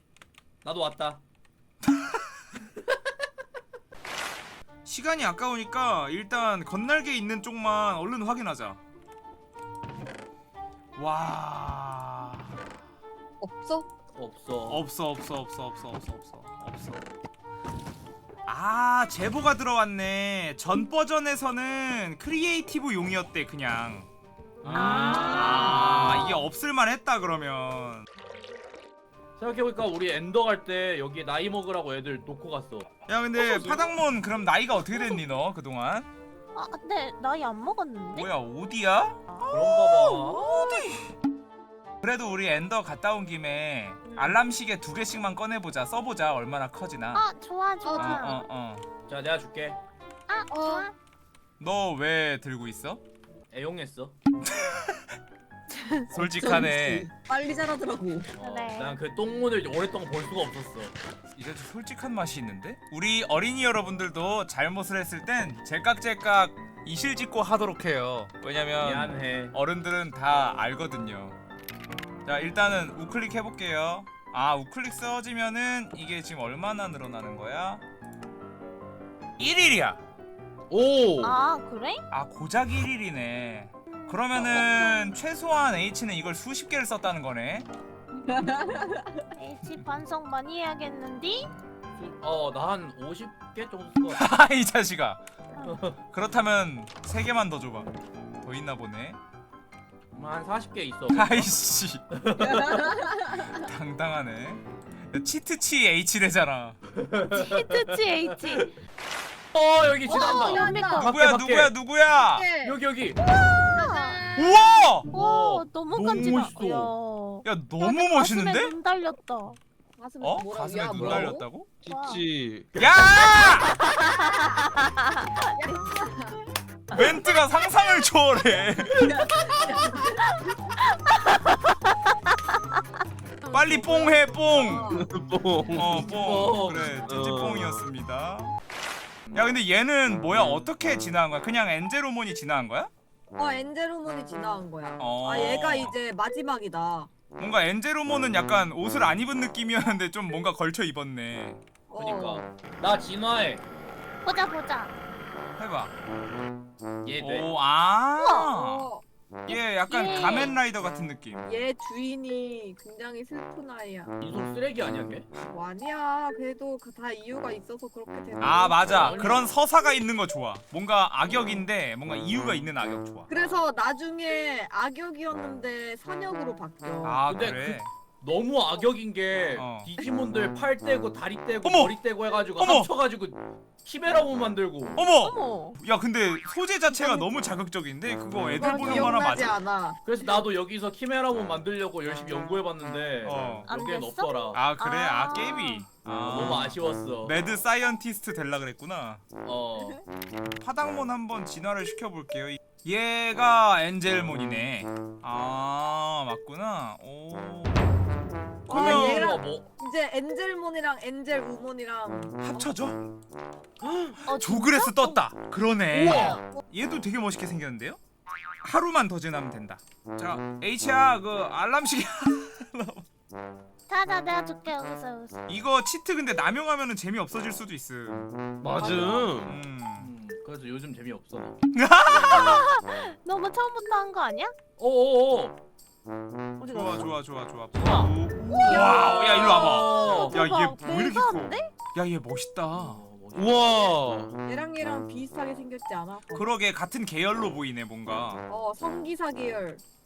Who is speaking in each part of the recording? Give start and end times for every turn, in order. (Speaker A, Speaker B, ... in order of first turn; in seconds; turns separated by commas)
Speaker A: 0.6-1.2, Speaker B: 4.9-8.8, Speaker B: 11.0-12.6, Speaker C: 13.4-13.9, Speaker A: 14.2-14.8, Speaker B: 14.7-17.1, Speaker B: 18.5-24.1, Speaker A: 24.6-26.4, Speaker B: 24.7-28.1, Speaker D: 25.2-25.7, Speaker A: 29.4-32.9, Speaker B: 33.1-36.1, Speaker D: 33.4-33.9, Speaker D: 36.5-38.3, Speaker B: 38.1-41.1, Speaker A: 39.5-40.5, Speaker B: 42.0-47.2, Speaker D: 47.1-48.4, Speaker C: 47.8-48.3, Speaker B: 47.9-48.9, Speaker A: 49.1-49.8, Speaker D: 50.3-51.0, Speaker C: 50.5-50.9, Speaker B: 51.6-53.0, Speaker A: 53.5-54.1, Speaker B: 54.4-55.1, Speaker C: 56.1-58.3, Speaker B: 56.1-57.1, Speaker A: 58.4-60.9, Speaker D: 58.4-58.9, Speaker B: 61.4-71.4, Speaker A: 68.8-69.5, Speaker B: 72.3-77.8, Speaker B: 79.4-80.0, Speaker E: 80.7-81.4, Speaker D: 81.2-82.0, Speaker B: 82.1-87.7, Speaker D: 83.9-85.2, Speaker C: 88.2-89.2, Speaker D: 89.4-91.5, Speaker A: 92.0-94.2, Speaker B: 94.1-95.2, Speaker A: 95.6-96.0, Speaker B: 96.1-97.9, Speaker B: 98.4-99.2, Speaker A: 100.1-101.5, Speaker B: 101.1-102.0, Speaker A: 102.1-103.1, Speaker B: 103.3-106.8, Speaker A: 106.9-107.9, Speaker D: 107.3-108.8, Speaker A: 109.5-111.8, Speaker C: 110.0-111.1, Speaker D: 110.1-111.1, Speaker B: 111.0-112.5, Speaker C: 112.1-112.8, Speaker A: 112.6-113.2, Speaker D: 113.2-114.3, Speaker B: 114.4-115.1, Speaker A: 115.1-116.9, Speaker D: 115.1-119.6, Speaker B: 116.0-116.4, Speaker B: 117.5-118.7, Speaker C: 120.0-121.5, Speaker B: 120.2-121.7, Speaker A: 121.0-121.3, Speaker E: 121.8-122.8, Speaker D: 121.9-122.2, Speaker B: 122.8-123.9, Speaker D: 123.2-125.5, Speaker C: 125.6-126.4, Speaker B: 126.9-129.3, Speaker D: 129.7-132.7, Speaker D: 133.5-134.1, Speaker B: 133.5-135.0, Speaker C: 134.3-135.1, Speaker E: 134.9-137.9, Speaker B: 135.7-138.6, Speaker A: 136.1-136.9, Speaker B: 139.3-142.9, Speaker C: 143.3-147.1, Speaker B: 145.0-145.9, Speaker B: 147.4-151.6, Speaker C: 151.9-152.5, Speaker A: 152.0-153.6, Speaker D: 154.2-154.9, Speaker B: 155.6-155.9, Speaker A: 157.0-157.5, Speaker B: 157.2-158.9, Speaker D: 158.2-158.6, Speaker C: 158.5-159.0, Speaker D: 159.5-160.6, Speaker B: 159.5-161.5, Speaker C: 161.4-164.2, Speaker A: 164.2-165.3, Speaker C: 165.4-169.5, Speaker B: 168.4-173.3, Speaker A: 168.9-169.5, Speaker C: 173.3-177.2, Speaker B: 177.0-177.9, Speaker A: 177.3-185.1, Speaker B: 179.6-179.9, Speaker B: 181.6-181.9, Speaker B: 182.6-182.9, Speaker B: 185.0-189.6, Speaker D: 185.2-185.8, Speaker C: 186.9-187.3, Speaker C: 188.5-190.0, Speaker A: 190.0-194.6, Speaker B: 193.2-193.7, Speaker D: 193.7-195.9, Speaker B: 194.5-199.2, Speaker A: 196.2-197.3, Speaker A: 199.4-200.0, Speaker B: 200.6-207.8, Speaker B: 208.7-209.4, Speaker C: 208.7-212.7, Speaker A: 208.7-209.7, Speaker B: 212.4-213.0, Speaker E: 213.8-214.2, Speaker D: 214.3-215.2, Speaker B: 214.3-218.0, Speaker E: 215.9-216.4, Speaker C: 216.1-216.4, Speaker B: 218.6-223.1, Speaker D: 223.9-225.5, Speaker B: 225.5-228.3, Speaker E: 228.6-229.6, Speaker C: 228.6-229.3, Speaker B: 229.4-230.1, Speaker A: 230.0-231.6, Speaker B: 231.7-232.7, Speaker D: 232.1-234.5, Speaker A: 234.8-235.6, Speaker D: 236.6-237.1, Speaker B: 236.7-243.0, Speaker A: 237.8-238.1, Speaker D: 237.8-241.7, Speaker C: 238.5-240.2, Speaker A: 239.9-240.4, Speaker A: 242.7-244.0, Speaker E: 243.3-244.3, Speaker C: 244.4-246.4, Speaker B: 246.3-248.5, Speaker C: 248.5-249.8